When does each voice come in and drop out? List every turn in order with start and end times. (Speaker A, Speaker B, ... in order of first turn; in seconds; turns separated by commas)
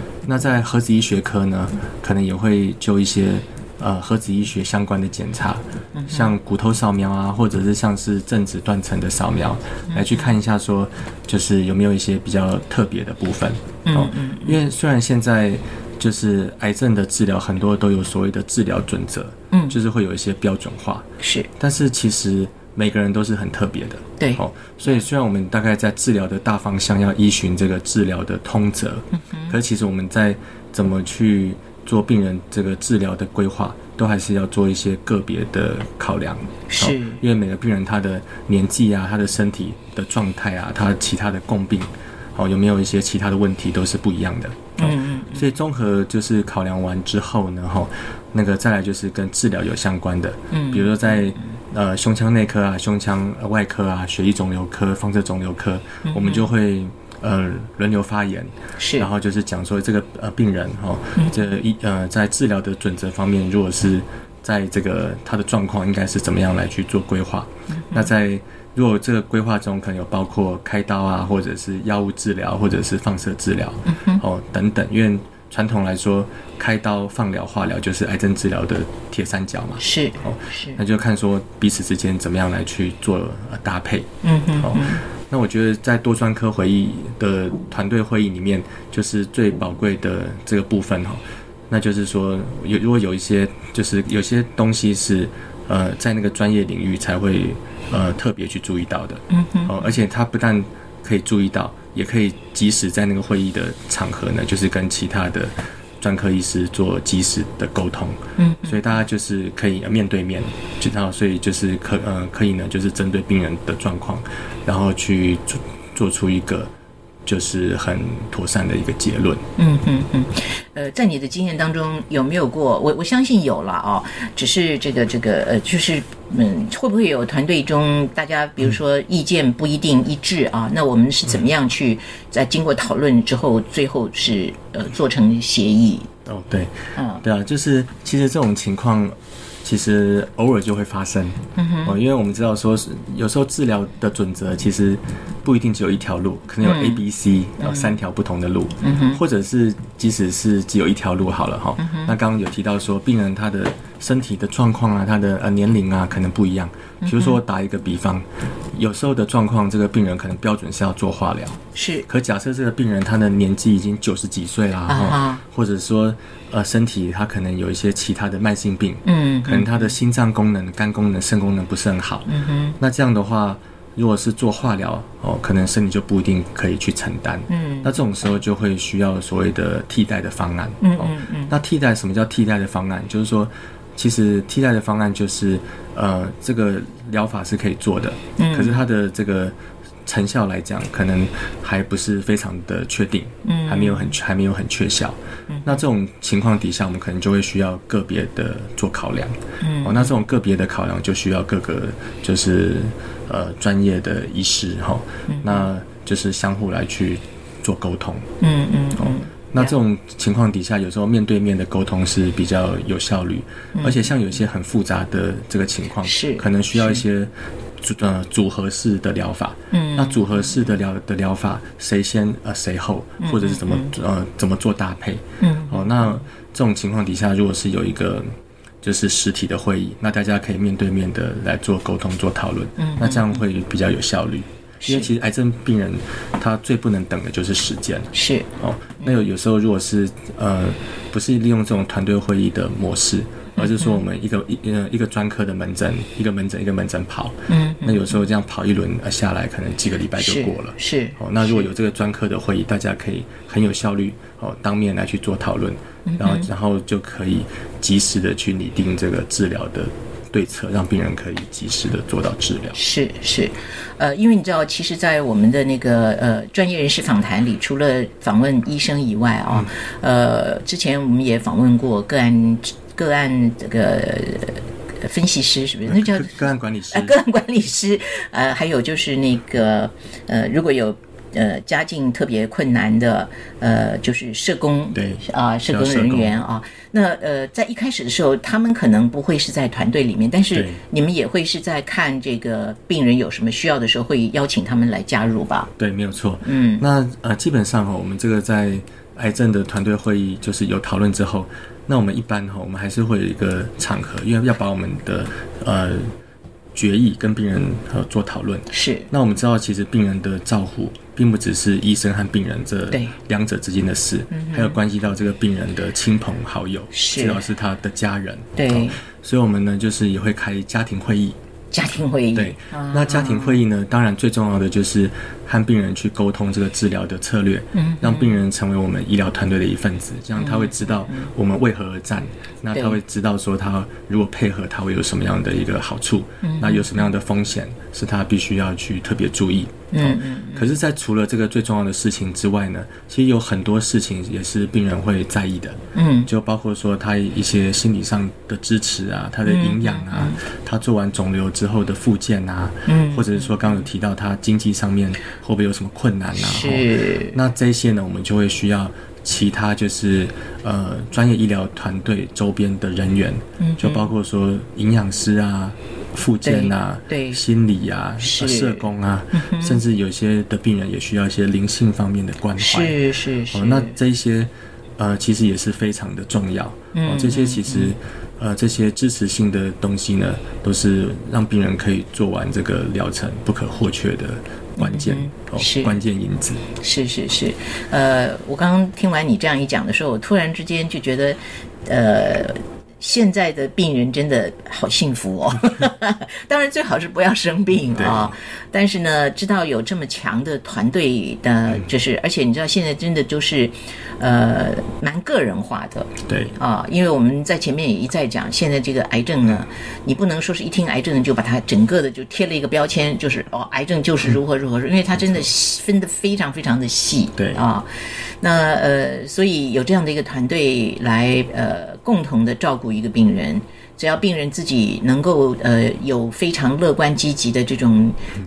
Speaker A: 0.2-21.1, Speaker B: 5.9-6.4, Speaker B: 9.9-10.3, Speaker B: 13.8-14.6, Speaker B: 19.5-19.8, Speaker B: 21.2-21.5, Speaker A: 21.6-84.1, Speaker B: 29.1-29.6, Speaker B: 36.7-37.2, Speaker B: 44.8-45.5, Speaker B: 50.5-51.4, Speaker B: 56.0-56.5, Speaker B: 58.8-59.1, Speaker B: 67.7-68.1, Speaker B: 73.9-74.2, Speaker B: 79.8-80.8, Speaker B: 84.2-85.0, Speaker A: 84.6-116.7, Speaker B: 99.3-99.8, Speaker B: 108.4-108.8, Speaker A: 117.3-119.4, Speaker B: 119.6-136.1, Speaker A: 136.3-208.3, Speaker B: 137.0-137.2, Speaker B: 141.6-142.0, Speaker B: 146.6-147.0, Speaker B: 147.6-148.0, Speaker B: 148.8-149.2, Speaker B: 151.8-152.2, Speaker B: 157.0-157.4, Speaker B: 161.8-162.1, Speaker B: 164.9-165.4, Speaker B: 169.1-170.0, Speaker B: 172.3-172.8, Speaker B: 177.5-177.9, Speaker B: 180.8-181.6, Speaker B: 188.4-188.8, Speaker B: 193.4-194.2, Speaker B: 195.5-195.8, Speaker B: 199.6-200.1, Speaker B: 205.3-205.7, Speaker B: 208.4-209.7, Speaker A: 209.0-262.8, Speaker B: 213.8-214.1, Speaker B: 216.0-217.1, Speaker B: 219.7-220.6, Speaker B: 223.2-223.9, Speaker B: 225.4-226.2, Speaker B: 232.8-233.4, Speaker B: 234.8-235.1, Speaker B: 238.1-238.5, Speaker B: 243.6-244.0, Speaker B: 247.5-248.2, Speaker B: 250.2-251.7, Speaker B: 256.1-256.5, Speaker B: 262.8-276.4, Speaker A: 275.9-277.2, Speaker B: 276.9-295.7, Speaker A: 284.9-286.4, Speaker A: 290.5-290.8, Speaker A: 295.8-306.1, Speaker B: 296.4-296.9, Speaker A: 306.8-321.4, Speaker B: 308.7-309.1, Speaker B: 314.3-314.8, Speaker B: 316.9-317.4, Speaker B: 318.6-319.0, Speaker B: 321.7-323.6, Speaker A: 322.4-373.0, Speaker B: 327.7-328.4, Speaker B: 330.4-331.3, Speaker B: 336.4-337.0, Speaker B: 339.9-340.7, Speaker B: 345.9-346.3, Speaker B: 349.4-350.4, Speaker B: 352.9-353.9, Speaker B: 356.4-357.4, Speaker B: 363.6-364.1, Speaker B: 366.4-367.4, Speaker B: 368.2-369.8, Speaker B: 372.6-373.9, Speaker A: 373.5-386.6, Speaker B: 376.9-377.9, Speaker B: 384.8-386.0, Speaker B: 386.8-428.2, Speaker A: 397.9-398.3, Speaker A: 406.3-406.6, Speaker A: 417.4-417.6